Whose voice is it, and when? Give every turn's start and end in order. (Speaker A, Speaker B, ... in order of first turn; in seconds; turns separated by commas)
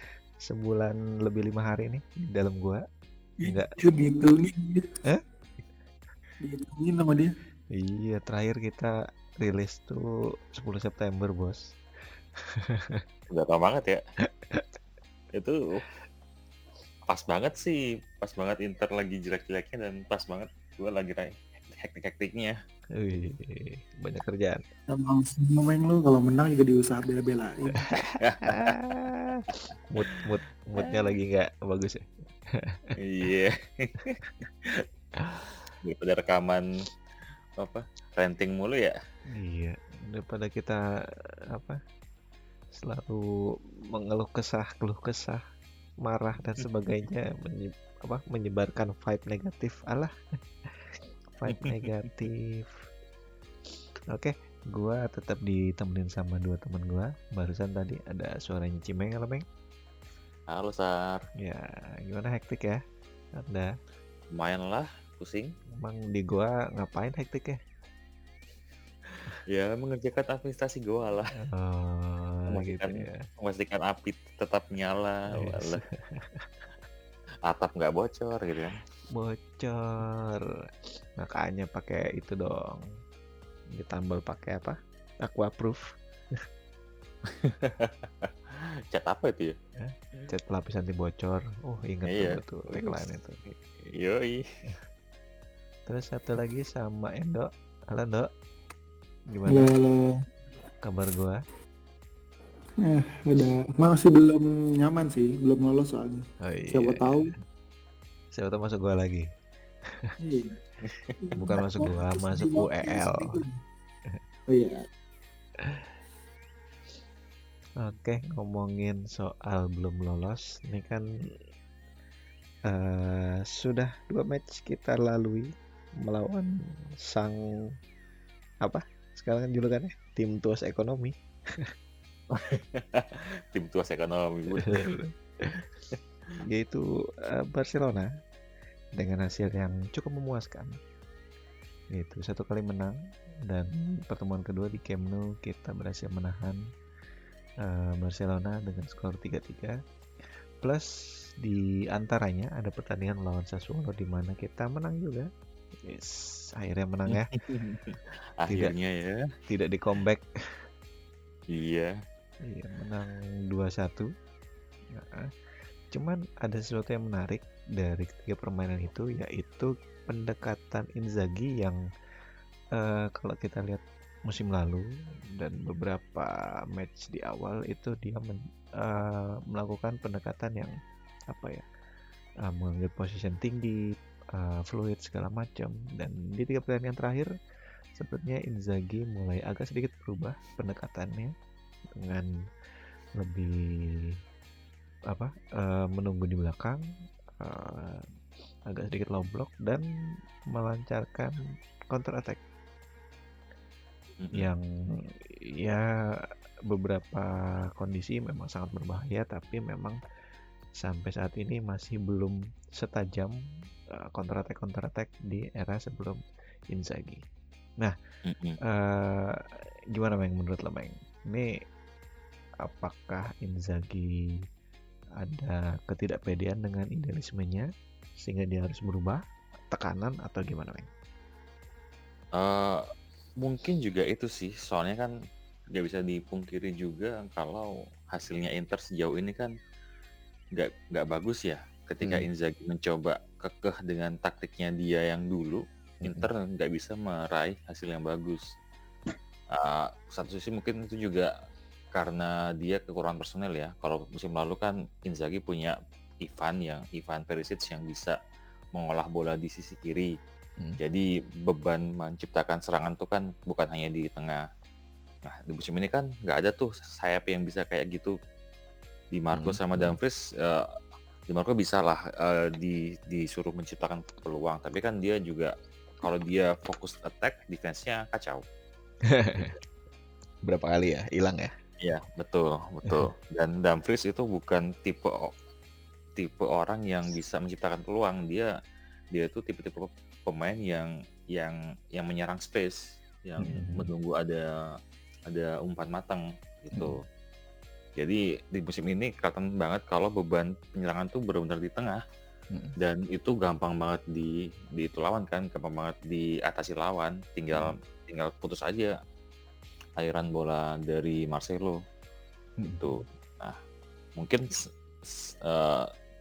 Speaker A: 0.4-2.8, Speaker B: 3.4-4.8, Speaker A: 3.4-3.7, Speaker B: 6.4-7.3, Speaker A: 7.7-11.8, Speaker A: 12.4-13.0, Speaker C: 13.3-14.0, Speaker A: 14.2-14.8, Speaker C: 15.3-15.8, Speaker C: 17.1-22.6, Speaker A: 22.9-24.6, Speaker B: 24.9-27.8, Speaker A: 27.8-33.0, Speaker C: 28.2-28.8, Speaker C: 33.0-34.8, Speaker A: 35.1-35.5, Speaker C: 35.8-36.9, Speaker C: 37.6-39.0, Speaker A: 39.3-41.8, Speaker A: 42.8-43.3, Speaker A: 43.9-45.4, Speaker A: 46.0-52.8, Speaker A: 54.1-59.4, Speaker C: 60.5-61.3, Speaker A: 61.4-62.8, Speaker A: 63.4-63.7, Speaker C: 64.3-65.5, Speaker A: 65.7-67.6, Speaker C: 69.1-71.3, Speaker A: 71.4-73.2, Speaker C: 72.5-75.8, Speaker A: 75.3-76.5, Speaker C: 77.5-78.8, Speaker A: 79.1-80.4, Speaker A: 81.2-82.8, Speaker A: 83.7-86.4, Speaker C: 87.2-89.6, Speaker A: 89.8-93.5, Speaker C: 92.0-93.0, Speaker C: 93.9-94.4, Speaker A: 95.8-98.3, Speaker A: 99.3-99.7, Speaker B: 99.5-100.2, Speaker A: 100.8-101.4, Speaker B: 102.8-107.3, Speaker A: 106.4-107.2, Speaker A: 108.3-109.3, Speaker A: 109.9-110.1, Speaker B: 110.2-110.5, Speaker C: 110.8-111.1, Speaker B: 111.2-113.5, Speaker A: 111.3-113.4, Speaker B: 114.5-114.8, Speaker A: 115.6-115.9, Speaker A: 117.8-121.0, Speaker A: 122.7-127.8, Speaker A: 128.6-131.7, Speaker C: 132.3-134.9, Speaker A: 134.6-135.6, Speaker A: 136.4-138.1, Speaker A: 138.9-140.7, Speaker A: 141.9-142.9, Speaker A: 143.5-146.6, Speaker A: 147.6-149.8, Speaker A: 150.6-150.9, Speaker A: 151.4-155.3, Speaker A: 155.8-157.3, Speaker C: 157.1-159.3, Speaker A: 158.5-158.7, Speaker A: 159.5-160.7, Speaker C: 161.5-161.9, Speaker A: 162.4-164.1, Speaker A: 164.9-165.3, Speaker A: 165.9-171.8, Speaker A: 172.7-180.7, Speaker A: 181.3-181.7, Speaker A: 182.4-183.8, Speaker A: 184.3-187.3, Speaker A: 187.9-191.3, Speaker A: 191.9-192.3, Speaker A: 193.2-194.1, Speaker A: 195.1-196.8, Speaker A: 197.4-198.0, Speaker A: 198.7-199.8, Speaker A: 200.5-201.3, Speaker A: 201.9-202.4, Speaker C: 204.2-204.5, Speaker A: 204.3-205.8, Speaker A: 206.7-210.0, Speaker A: 210.8-213.3, Speaker A: 213.9-216.2, Speaker A: 216.7-217.2, Speaker C: 218.3-218.6, Speaker A: 218.6-219.4, Speaker A: 219.9-221.5, Speaker A: 222.6-224.2, Speaker A: 225.2-227.7, Speaker A: 228.2-230.9, Speaker C: 232.3-232.8, Speaker C: 233.4-235.1, Speaker C: 235.7-239.5, Speaker C: 240.5-248.4, Speaker A: 242.0-242.3, Speaker A: 246.0-246.3, Speaker C: 249.5-251.3, Speaker C: 251.9-258.2, Speaker C: 258.7-260.1, Speaker C: 260.8-264.4, Speaker C: 265.2-268.1, Speaker C: 269.1-270.6, Speaker A: 269.3-270.0, Speaker C: 271.3-278.4, Speaker A: 279.1-279.6, Speaker A: 280.4-281.5, Speaker C: 281.8-285.3, Speaker A: 282.8-283.1, Speaker C: 286.2-288.5, Speaker C: 289.1-294.7, Speaker A: 293.4-293.9, Speaker C: 295.3-297.0, Speaker C: 298.0-302.0, Speaker C: 302.8-308.9, Speaker C: 310.0-311.8, Speaker A: 312.6-313.0, Speaker C: 312.8-313.6, Speaker C: 314.2-315.9